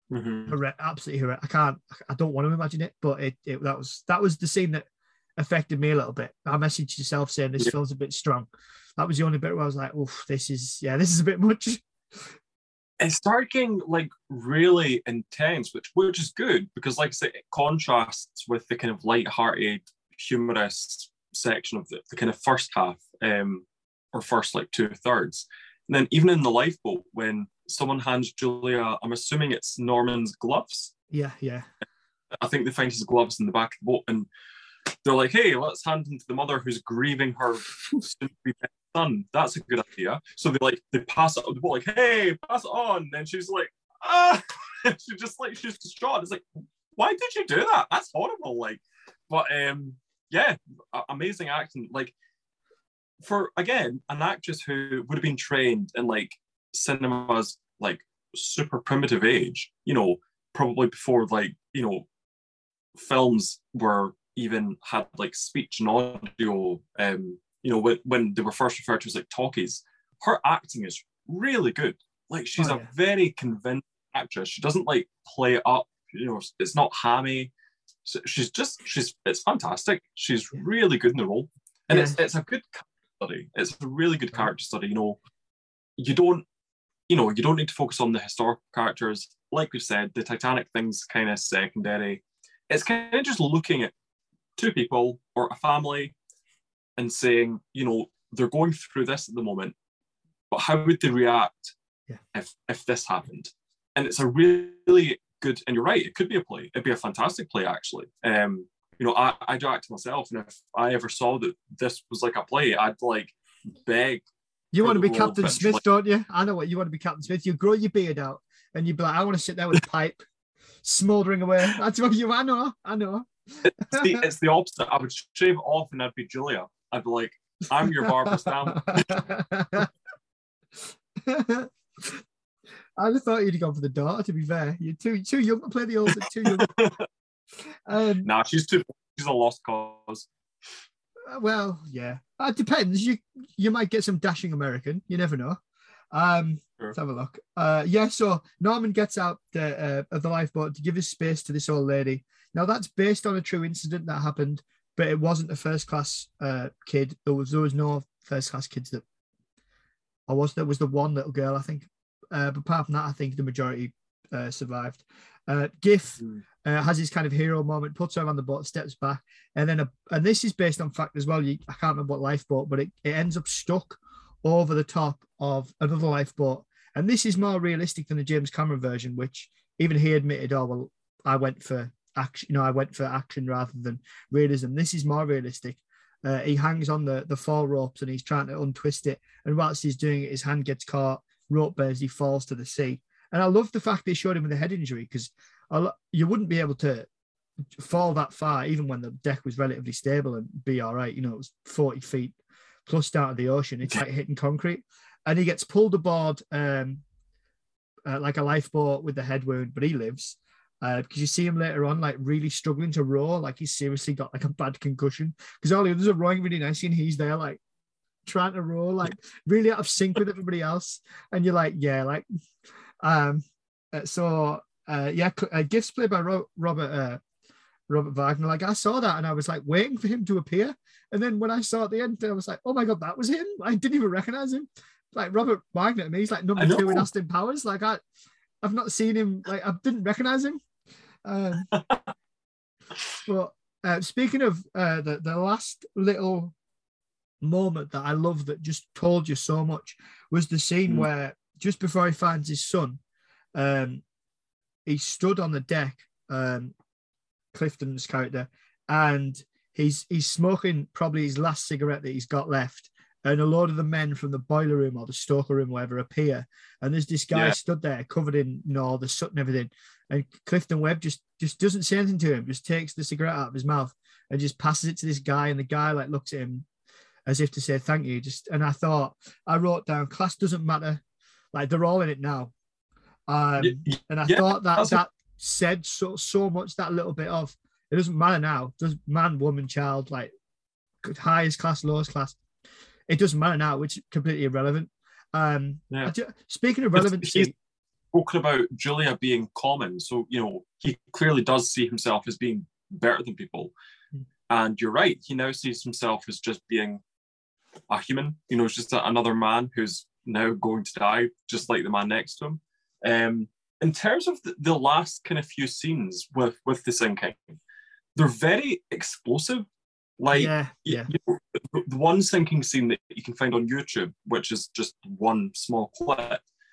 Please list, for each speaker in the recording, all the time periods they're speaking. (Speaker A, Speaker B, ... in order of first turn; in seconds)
Speaker A: 0.1-0.6, 13.0-30.9, 32.4-34.3, 35.0-46.4, 46.9-52.1, 53.2-62.1, 63.0-77.5, 78.0-85.2, 86.0-86.4, 87.1-93.9, 94.5-96.1, 97.0-99.8, 100.5-101.8, 102.3-114.2, 114.8-115.8, 123.6-129.2, 136.1-137.0, 138.2-140.3, 236.6-237.1, 241.7-242.1, 283.6-285.0, 296.9-297.5, 298.1-303.7, 304.5-307.0, 307.9-317.6, 318.1-319.7, 320.2-326.4
Speaker B: 0.5-4.8, 5.4-12.3, 31.1-31.7, 72.6-72.9, 81.9-82.2, 114.7-120.2, 120.8-123.3, 123.9-124.2, 128.0-129.9, 131.2-132.2, 133.0-136.7, 137.8-138.3, 141.2-145.6, 146.1-159.0, 160.3-197.1, 197.7-207.0, 208.1-217.6, 218.2-222.2, 223.0-227.2, 227.9-238.0, 238.6-240.6, 241.2-241.7, 243.2-246.5, 247.4-253.0, 253.5-254.0, 254.8-256.7, 257.5-276.6, 277.3-281.0, 281.5-282.5, 283.3-290.3, 291.0-292.4, 293.1-297.5, 320.3-321.1